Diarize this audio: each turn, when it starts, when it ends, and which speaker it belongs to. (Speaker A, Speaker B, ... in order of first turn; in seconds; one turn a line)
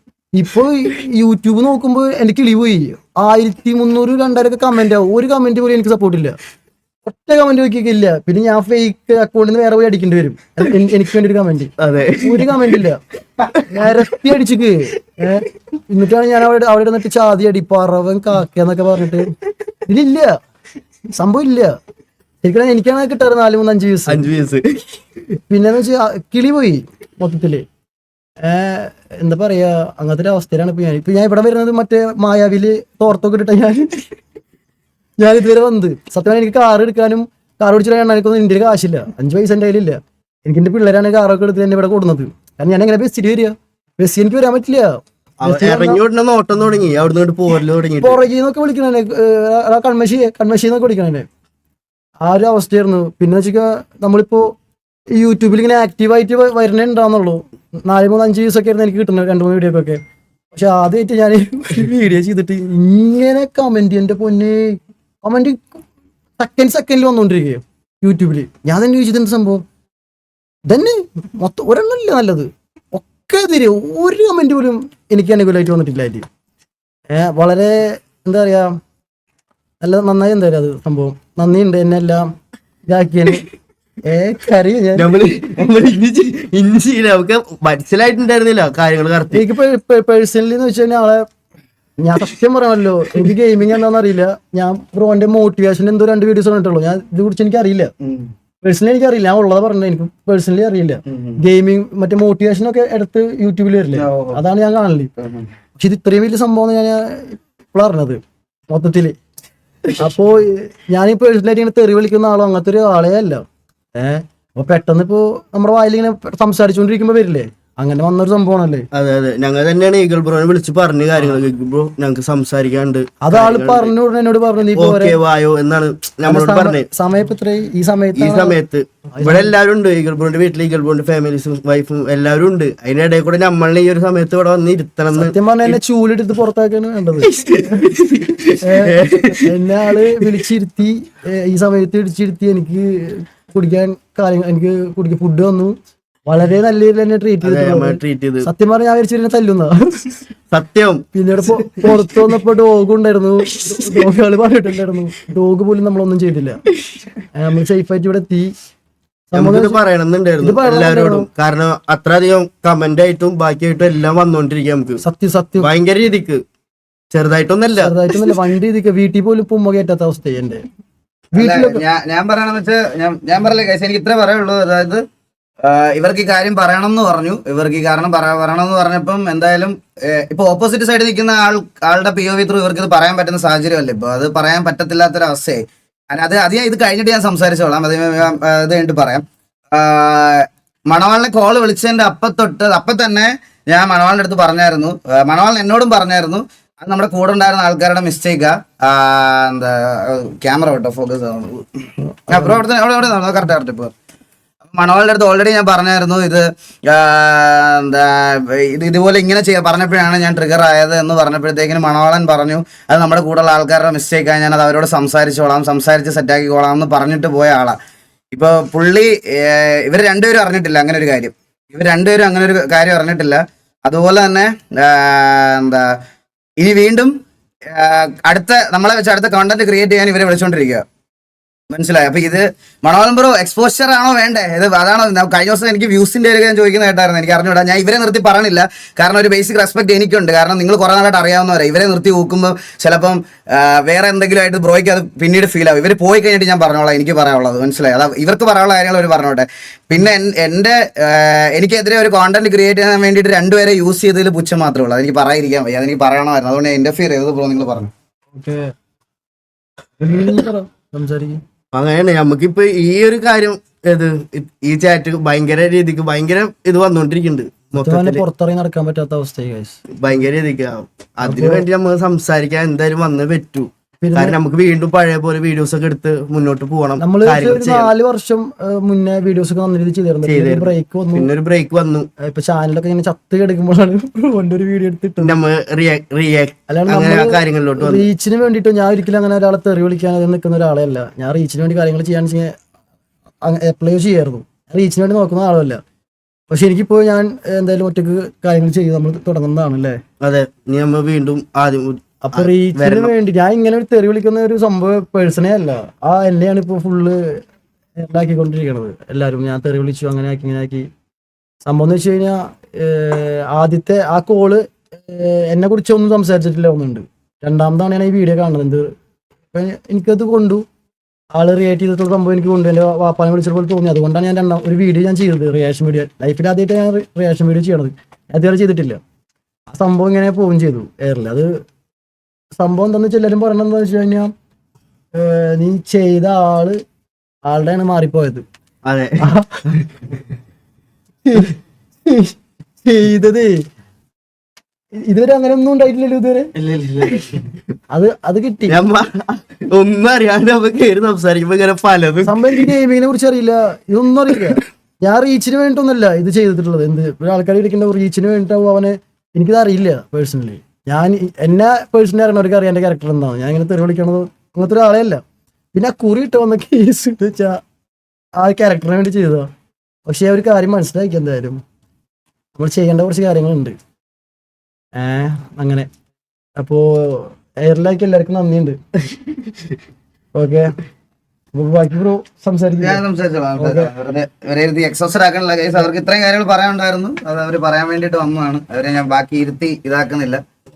Speaker A: 0.3-6.4
Speaker A: 7.1-13.0
Speaker B: 11.8-12.8
Speaker B: 13.5-13.9
Speaker A: 13.7-19.3
Speaker A: 19.9-20.4
Speaker A: 21.2-21.7
Speaker A: 22.4-24.3
Speaker B: 24.1-24.9
Speaker A: 25.5-27.6
Speaker A: 28.4-34.1
Speaker A: 35.2-46.0
Speaker B: 45.4-48.2
Speaker A: 48.0-51.3
Speaker A: 52.2-54.5
Speaker A: 55.2-60.0
Speaker A: 60.5-65.8
Speaker A: 66.4-69.6
Speaker A: 70.7-76.3
Speaker A: 77.1-78.8
Speaker A: 79.8-82.3
Speaker A: 82.9-83.5
Speaker A: 84.1-85.1
Speaker B: 85.0-89.4
Speaker A: 89.3-91.2
Speaker A: 92.0-97.9
Speaker C: 98.0-98.3
Speaker A: 98.6-105.1
Speaker C: 101.1-101.4
Speaker C: 104.0-104.4
Speaker C: 105.2-105.5
Speaker A: 105.8-109.2
Speaker A: 110.0-113.4
Speaker A: 114.0-118.9
Speaker B: 118.9-123.9
Speaker A: 123.2-125.2
Speaker B: 124.7-126.9
Speaker A: 126.3-128.6
Speaker B: 128.2-135.7
Speaker A: 129.2-129.5
Speaker A: 135.1-137.9
Speaker B: 137.2-139.5
Speaker A: 138.6-145.8
Speaker A: 146.3-150.2
Speaker B: 147.4-148.5
Speaker B: 150.5-152.3
Speaker A: 151.1-156.6
Speaker B: 153.7-154.1
Speaker A: 157.3-158.5
Speaker A: 159.3-159.8
Speaker B: 159.3-165.0
Speaker A: 160.4-161.3
Speaker A: 165.0-165.7
Speaker B: 165.6-166.4
Speaker B: 167.1-168.4
Speaker A: 167.8-170.6
Speaker A: 171.3-171.8
Speaker C: 171.4-175.0
Speaker C: 175.6-201.7
Speaker A: 202.0-202.6
Speaker C: 202.3-203.9
Speaker C: 204.7-217.8
Speaker C: 218.3-225.9
Speaker C: 226.6-227.1
Speaker C: 227.7-230.8
Speaker C: 231.7-257.9
Speaker A: 258.3-258.7
Speaker A: 260.0-261.4
Speaker B: 261.7-268.2
Speaker A: 267.8-269.8
Speaker B: 269.9-277.9
Speaker A: 271.2-271.7
Speaker A: 274.0-274.4
Speaker A: 277.0-281.3
Speaker B: 280.2-282.1
Speaker A: 282.2-285.4
Speaker B: 285.2-288.1
Speaker A: 286.7-292.5
Speaker A: 293.4-295.8
Speaker A: 296.5-300.0
Speaker B: 300.2-303.1
Speaker A: 302.2-307.4
Speaker A: 308.0-310.9
Speaker A: 311.6-318.9
Speaker A: 319.5-320.6
Speaker A: 321.4-329.0
Speaker A: 329.7-331.5
Speaker A: 332.6-334.3
Speaker A: 335.1-336.8
Speaker A: 337.5-338.4
Speaker B: 338.9-339.3
Speaker A: 339.2-339.6
Speaker A: 341.3-343.6
Speaker A: 345.1-346.5
Speaker B: 346.6-347.5
Speaker A: 347.9-348.8
Speaker B: 348.7-352.7
Speaker A: 352.3-365.2
Speaker A: 365.7-367.6
Speaker A: 368.4-369.5
Speaker A: 370.1-371.6
Speaker A: 372.6-373.8
Speaker A: 375.0-375.9
Speaker A: 376.6-378.8
Speaker A: 380.4-380.7
Speaker A: 381.5-383.0
Speaker C: 382.8-390.4
Speaker A: 383.6-383.9